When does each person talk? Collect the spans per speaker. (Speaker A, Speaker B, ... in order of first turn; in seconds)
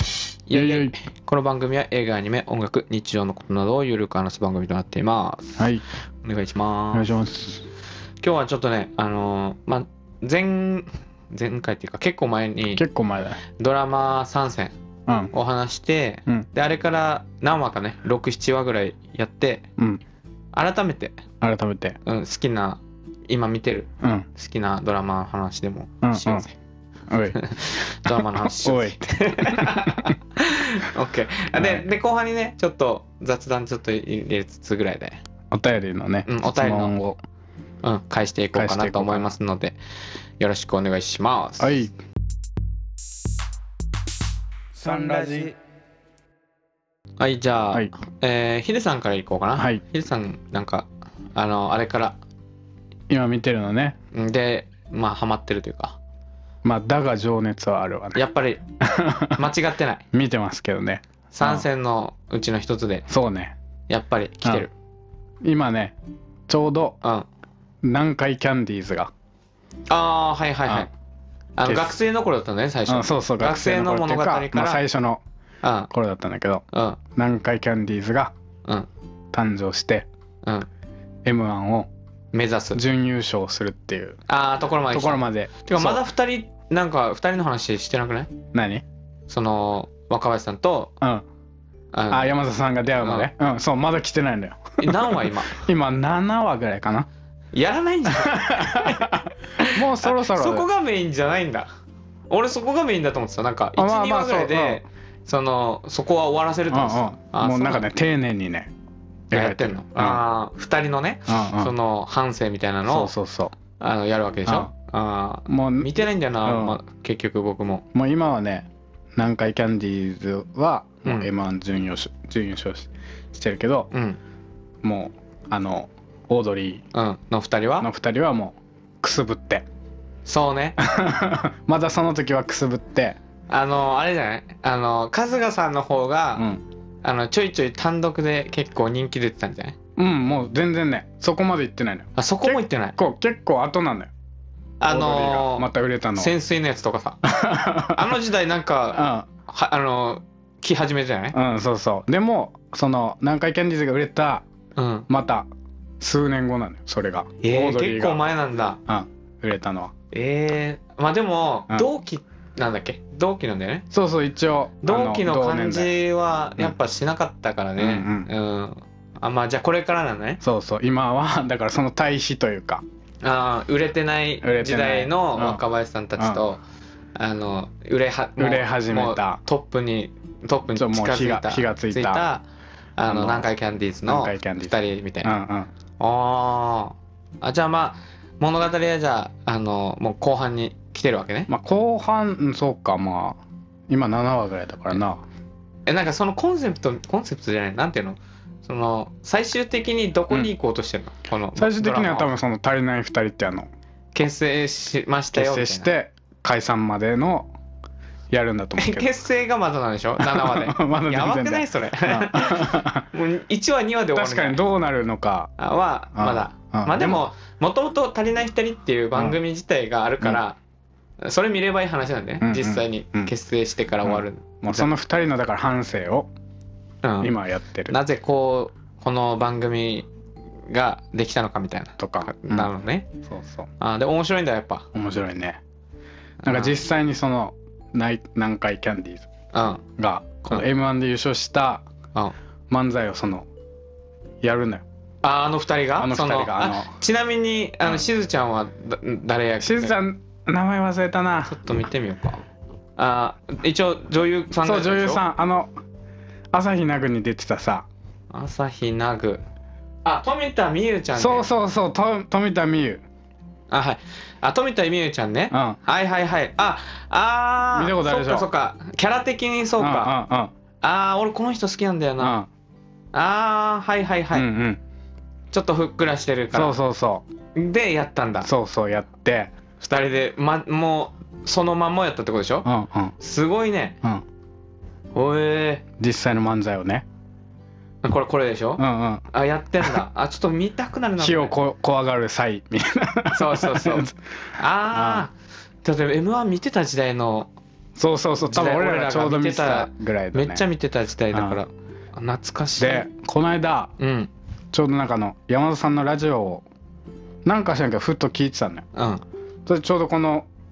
Speaker A: 0.5-5.6, 6.2-7.1, 8.2-12.8, 13.6-14.7, 15.3-19.6, 20.5-21.2, 22.0-26.5, 27.3-35.2, 36.2-37.0, 37.8-39.8, 40.4-41.9, 44.8-45.5, 47.2-52.2, 54.1-56.0, 58.1-58.6, 59.3-60.0, 61.3-63.0, 63.9-64.7, 69.9-70.9, 71.6-74.8, 75.6-75.9, 76.7-77.0, 82.3-82.8, 84.3-88.3, 89.3-90.9, 91.9-92.3, 93.0-93.3, 94.8-95.6, 97.5-101.7, 102.3-107.9, 109.3-113.1, 113.8-117.8, 123.9-124.2, 126.9-127.9, 130.2-130.8, 133.5-136.5, 137.0-139.8, 142.2-142.9, 144.8-151.3, 154.8-155.1, 157.4-158.8, 160.1-163.8, 164.8-170.4, 173.2-176.6, 177.1-182.4, 183.0-185.3, 186.0-191.5, 195.9-202.3, 204.1-205.9, 208.8-214.6, 215.6-220.6, 221.2-224.9, 227.0-227.3, 227.9-230.1, 230.7-233.1, 233.8-234.9, 236.4-236.8, 239.5-239.8, 245.2-249.9, 251.4-252.4, 253.0-255.2, 258.3-259.4, 260.0-261.5, 263.7-270.1, 270.8-272.4, 273.1-274.5, 275.5-276.8, 277.5-278.5, 279.8-282.7, 283.2-284.0, 285.1-285.8, 288.0-291.5, 293.3-294.1, 294.6-295.3, 295.8-297.5, 298.4-303.0, 304.0-304.3, 308.9-309.2
Speaker B: 0.5-0.9, 5.6-5.8, 6.9-7.6, 12.8-13.4, 15.1-15.3, 21.4-22.0, 24.0-24.3, 26.0-26.4, 27.1-27.4, 28.0-30.1, 31.5-31.8, 35.5-37.2, 38.5-39.3, 41.6-41.9, 44.7-45.5, 49.6-49.8, 53.1-54.0, 56.6-58.2, 58.8-59.4, 60.1-61.6, 63.1-63.5, 65.4-65.9, 66.5-67.0, 67.8-69.1, 71.6-71.9, 72.9-75.2, 75.9-76.6, 77.1-78.3, 79.3-80.1, 81.2-81.9, 82.7-84.2, 84.9-86.0, 88.5-88.8, 92.1-97.1, 98.2-100.7, 103.8-104.8, 106.7-108.7, 109.3-110.2, 111.3-111.7, 112.8-113.5, 115.5-116.8, 117.9-123.9, 124.8-126.8, 127.8-129.6, 130.8-133.2, 139.9-144.1, 144.9-146.3, 147.2-148.1, 148.9-149.3, 151.3-154.4, 155.1-155.5, 156.0-158.2, 158.8-159.9, 163.9-165.9, 167.8-168.3, 170.4-172.8, 174.4-175.6, 176.2-176.4, 178.4-179.4, 180.8-182.2, 183.1-183.5, 184.1-185.7, 191.5-193.4, 193.9-195.2, 201.6-203.7, 205.3-207.5, 208.3-209.1, 210.2-213.1, 214.1-215.5, 216.1-217.2, 222.4-223.3, 224.0-226.3, 227.2-227.9, 232.0-232.7, 233.2-233.7, 234.9-235.6, 236.4-239.3, 240.0-241.8, 242.7-243.5, 244.4-244.8, 246.0-246.9, 249.6-251.6, 254.6-255.7, 256.5-257.9, 261.1-263.0, 265.5-265.8, 267.7-268.5, 269.8-270.5, 272.2-272.5, 274.3-274.8, 276.5-277.2, 278.4-279.5, 282.6-283.1, 286.0-287.0, 288.8-289.2, 291.2-294.1, 294.9-295.3, 297.9-300.6, 301.3-301.6, 302.8-303.9, 304.7-306.6, 307.4-308.8, 309.6-310.5